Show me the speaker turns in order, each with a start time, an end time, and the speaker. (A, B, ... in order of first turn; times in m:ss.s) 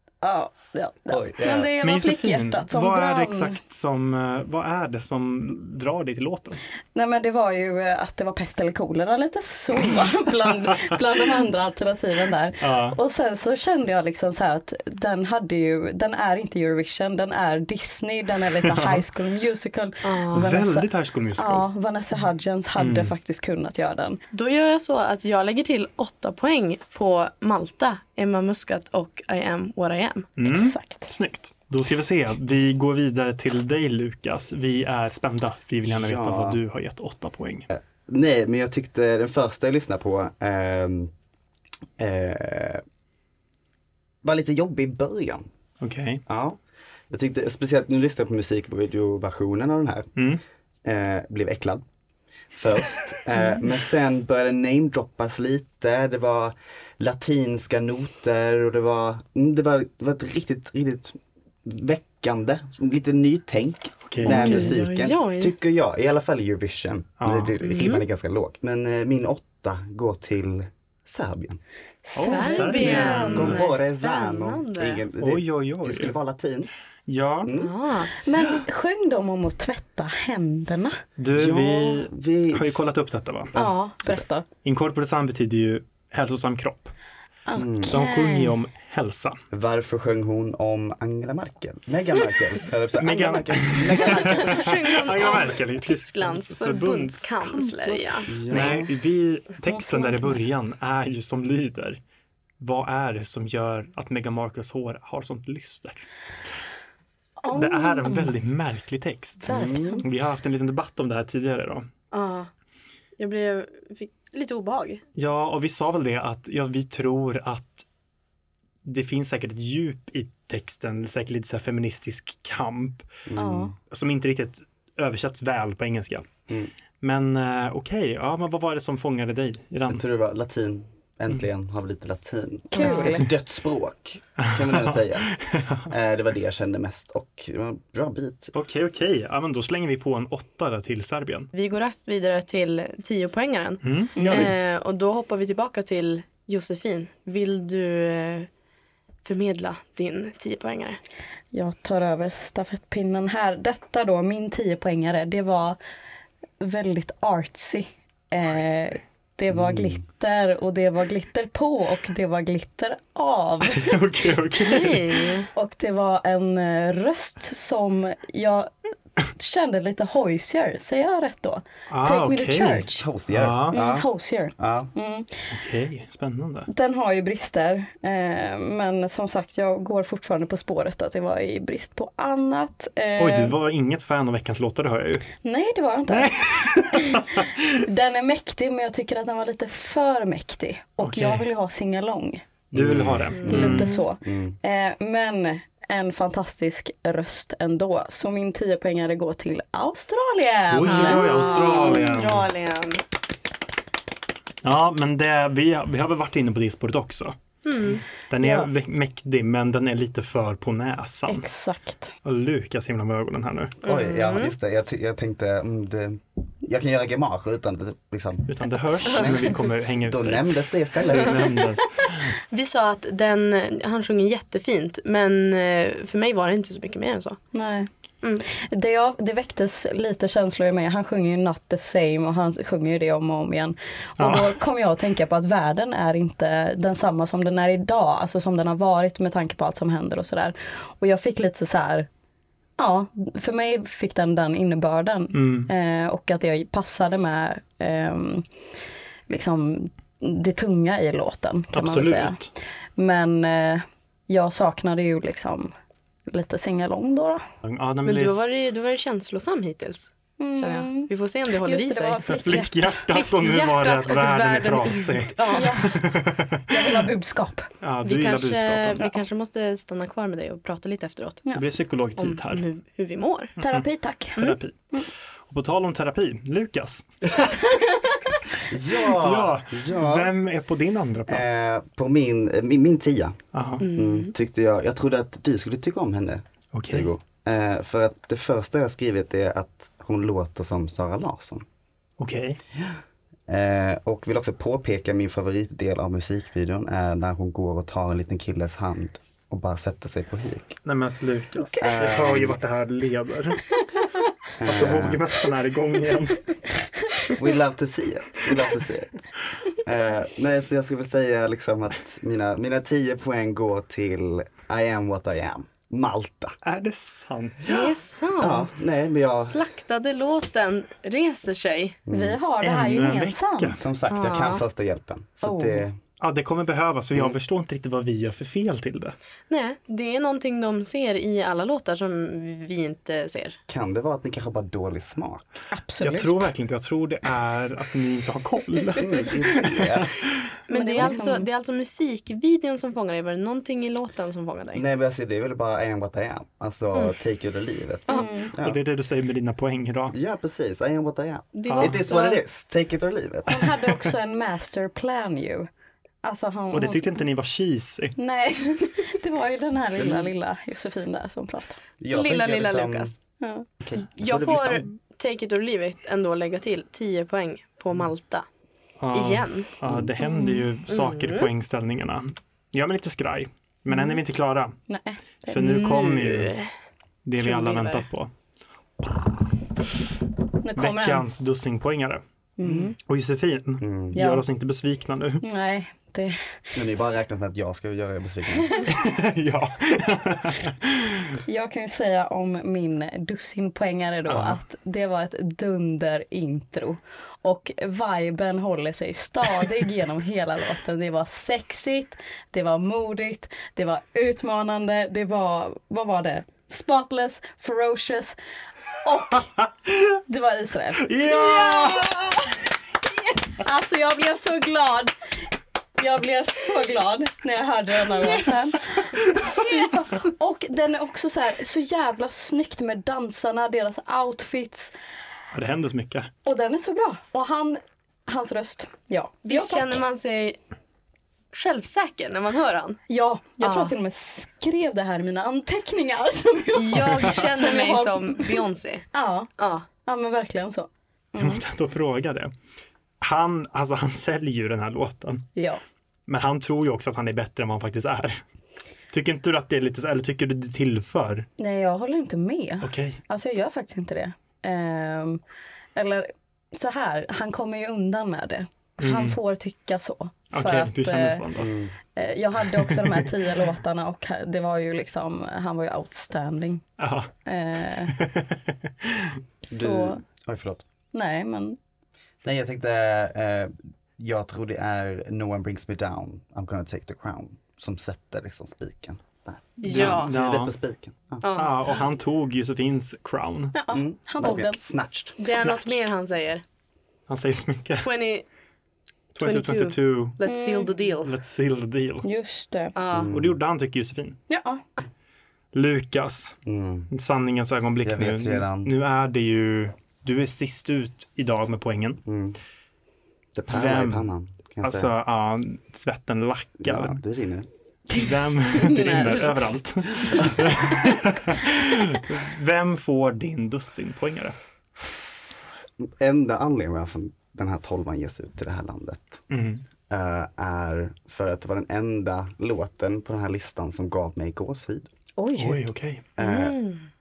0:00.2-0:03.6 A
0:01.1-0:01.7 B
0:01.8-0:06.6 C
0:06.9-0:24.2 A
0:12.6-0:13.0 C
0:18.5-0:19.0 C
0:20.0-0:20.5 D
0:20.3-0:21.6 C
0:22.8-0:23.1 C
0:24.3-0:30.3 D
0:30.4-0:37.7 C
0:30.4-0:31.1 A
0:35.9-0:36.6 B
0:37.7-0:41.1 B
0:42.0-0:42.8 B
0:44.2-0:45.5 B
0:45.8-0:46.2 C
0:46.3-0:50.1 B
0:50.2-0:50.4 C
0:50.8-0:51.8 B
0:52.5-1:11.6 B
1:04.0-1:04.7 C
1:04.2-1:05.5 D
1:07.2-1:07.6 C
1:07.6-1:08.0 D
1:12.0-1:13.6 A
1:12.1-1:13.6 C
1:12.2-1:15.0 D
1:12.7-1:16.7 B
1:15.2-1:16.1 C
1:17.1-1:17.5 C
1:17.4-1:17.7 B
1:17.6-1:18.1 D
1:18.2-1:21.0 A
1:21.2-1:23.5 C
1:21.3-1:22.8 B
1:23.5-1:24.2 B
1:23.5-1:24.4 A
1:24.6-1:26.9 C
1:27.5-1:28.6 A
1:27.5-1:28.0 B
1:27.9-1:29.4 C
1:29.5-1:34.7 B
1:33.0-1:37.7 C
1:34.3-1:38.3 D
1:37.7-1:38.7 A
1:38.3-1:38.9 B
1:38.5-1:42.0 C
1:39.6-1:40.3 A
1:42.6-1:46.0 C
1:47.4-1:48.3 A
1:47.5-1:51.9 C
1:49.4-1:50.0 A
1:49.5-1:50.0 B
1:52.1-1:52.5 D
1:53.2-1:55.0 D
1:55.1-1:57.9 C
1:58.8-2:03.1 C
2:03.3-2:03.7 B
2:03.4-2:03.7 A
2:03.9-2:06.3 C
2:07.0-2:10.0 C
2:09.9-2:15.3 B
2:12.7-2:13.3 A
2:14.4-2:15.9 C
2:15.9-2:18.5 B
2:18.5-2:21.5 C
2:21.5-2:28.5 D
2:23.8-2:24.5 C
2:24.2-2:24.5 A
2:29.2-2:31.0 D
2:31.5-2:35.8 A
2:36.6-2:44.0 A
2:39.5-2:40.0 B
2:43.6-2:45.2 C
2:44.6-2:45.5 D
2:45.5-2:53.0 A
2:51.9-2:53.8 C
2:52.9-2:54.9 B
2:53.7-2:55.3 A
2:55.5-2:56.7 C
2:56.7-3:03.5 A
3:03.2-3:05.3 C
3:05.4-3:12.5 A
3:06.1-3:07.7 C
3:11.0-3:11.5 C
3:12.7-3:14.6 B
3:12.7-3:13.9 C
3:13.3-3:14.0 D
3:13.4-3:22.1 A
3:20.7-3:22.5 C
3:20.8-3:23.0 D
3:24.6-3:27.4 C
3:27.6-3:28.0 D
3:28.3-3:31.5 C
3:28.4-3:28.7 A
3:31.3-3:32.1 A
3:32.2-3:33.8 C
3:33.8-3:41.6 B
3:33.8-3:34.5 D
3:38.4-3:42.3 C
3:41.2-3:41.6 D
3:42.4-3:47.4 D
3:47.5-3:47.9 A
3:48.4-4:02.1 A
3:54.2-3:54.6 C
4:02.8-4:08.5 A
4:05.3-4:05.7 C
4:09.3-4:12.4 A
4:11.7-4:12.5 C
4:13.0-4:15.7 A
4:16.3-4:17.4 A
4:17.6-4:18.4 C
4:18.0-4:22.2 D
4:20.4-4:23.0 A
4:22.2-4:26.9 C
4:23.1-4:25.9 D
4:25.5-4:25.9 A
4:26.7-4:27.7 A
4:27.8-4:29.1 C
4:28.0-4:31.4 D
4:31.5-4:32.6 C
4:32.2-4:33.6 D
4:33.6-4:35.0 A
4:33.6-4:37.6 C
4:37.6-4:38.4 A
4:38.7-4:40.3 B
4:39.1-4:41.7 C
4:41.3-4:43.4 B
4:43.5-4:43.8 C
4:43.8-4:44.3 D
4:43.9-4:51.6 B
4:46.7-4:47.1 C
4:52.2-4:52.6 C
4:52.8-5:00.8 B
5:00.8-5:03.6 C
5:01.8-5:02.6 B
5:04.6-5:05.3 B
5:04.6-5:06.4 C
5:07.3-5:09.2 B
5:09.8-5:16.5 B
5:16.6-5:17.8 C
5:17.7-5:18.7 D
5:17.7-5:19.6 B
5:19.4-5:22.0 D
5:22.1-5:22.4 B
5:22.1-5:23.8 A
5:22.6-5:23.8 C
5:23.7-5:26.0 B
5:24.1-5:24.6 D
5:25.4-5:25.8 A
5:26.2-5:29.2 C
5:29.5-5:33.6 D
5:33.7-5:35.4 B
5:35.7-5:36.5 A
5:36.0-5:40.1 C
5:39.0-5:40.1 B
5:40.7-5:44.8 D
5:40.7-5:41.5 A
5:44.7-5:48.8 B
5:48.1-5:48.5 A
5:48.6-5:50.2 C
5:50.1-5:53.9 B
5:51.5-5:52.4 D
5:51.7-5:52.0 C
5:53.5-5:55.7 A
5:56.2-5:57.1 A
5:56.7-5:58.2 C
5:58.2-6:01.8 A
6:00.0-6:00.3 B
6:02.0-6:03.2 B
6:02.1-6:03.1 D
6:03.4-6:03.7 A
6:03.8-6:04.9 B
6:04.2-6:08.5 D
6:09.0-6:14.8 C
6:09.1-6:09.7 D
6:10.9-6:11.5 D
6:14.9-6:15.6 A
6:15.5-6:16.5 C
6:15.6-6:16.7 D
6:17.2-6:18.3 C
6:17.5-6:17.9 A
6:20.6-6:21.2 A
6:20.8-6:22.2 C
6:22.6-6:22.9 A
6:22.6-6:22.9 B
6:23.0-6:25.4 C
6:23.8-6:24.3 B
6:24.2-6:24.4 A
6:25.4-6:26.4 A
6:26.7-6:28.7 B
6:28.9-6:31.4 C
6:31.4-6:48.4 A
6:34.3-6:34.6 C
6:49.0-6:52.2 A
6:51.0-6:52.1 C
6:53.6-6:55.1 A
6:56.0-7:04.9 A
7:05.5-7:06.3 C
7:06.4-7:10.0 A
7:09.4-7:10.6 D
7:11.5-7:13.0 D
7:13.1-7:18.6 A
7:13.6-7:13.9 D
7:16.7-7:19.9 D
7:19.1-7:21.6 A
7:21.4-7:22.5 C
7:23.2-7:25.5 C
7:25.6-7:25.8 A
7:26.3-7:28.4 C
7:29.1-7:31.5 C
7:31.6-7:35.4 A
7:32.8-7:33.2 C
7:36.0-7:41.4 A
7:39.0-7:39.4 C
7:40.5-7:41.7 C
7:41.5-7:41.9 B
7:42.1-7:46.8 A
7:42.7-7:43.3 C
7:47.0-7:47.3 C
7:47.4-7:48.2 A
7:48.0-7:49.4 C
7:49.7-7:50.2 A
7:49.7-7:50.9 B
7:51.1-7:51.8 A
7:52.4-8:01.6 B
7:59.8-8:00.3 D
7:59.9-8:00.8 C
8:01.4-8:01.8 D
8:01.6-8:03.8 C
8:03.7-8:04.8 A
8:03.9-8:05.4 B
8:05.4-8:06.6 D
8:07.3-8:08.1 C
8:08.0-8:08.4 D
8:09.4-8:10.4 C
8:09.4-8:11.3 D
8:10.4-8:10.9 A
8:11.2-8:12.3 C
8:12.2-8:13.0 A
8:13.0-8:13.3 D
8:13.1-8:13.6 B
8:13.3-8:14.4 C
8:14.5-8:14.8 A
8:15.7-8:16.6 C
8:16.6-8:17.1 B
8:17.1-8:22.2 C
8:18.0-8:18.9 B
8:22.2-8:22.6 B
8:23.5-8:25.1 B
8:23.7-8:27.2 C
8:26.8-8:27.7 B
8:28.1-8:34.6 C
8:28.8-8:29.6 D
8:36.0-8:39.4 B
8:39.5-8:39.8 C
8:40.1-8:45.1 B
8:45.4-8:45.8 A
8:45.5-8:46.2 C
8:46.4-8:46.8 B
8:46.4-8:47.0 D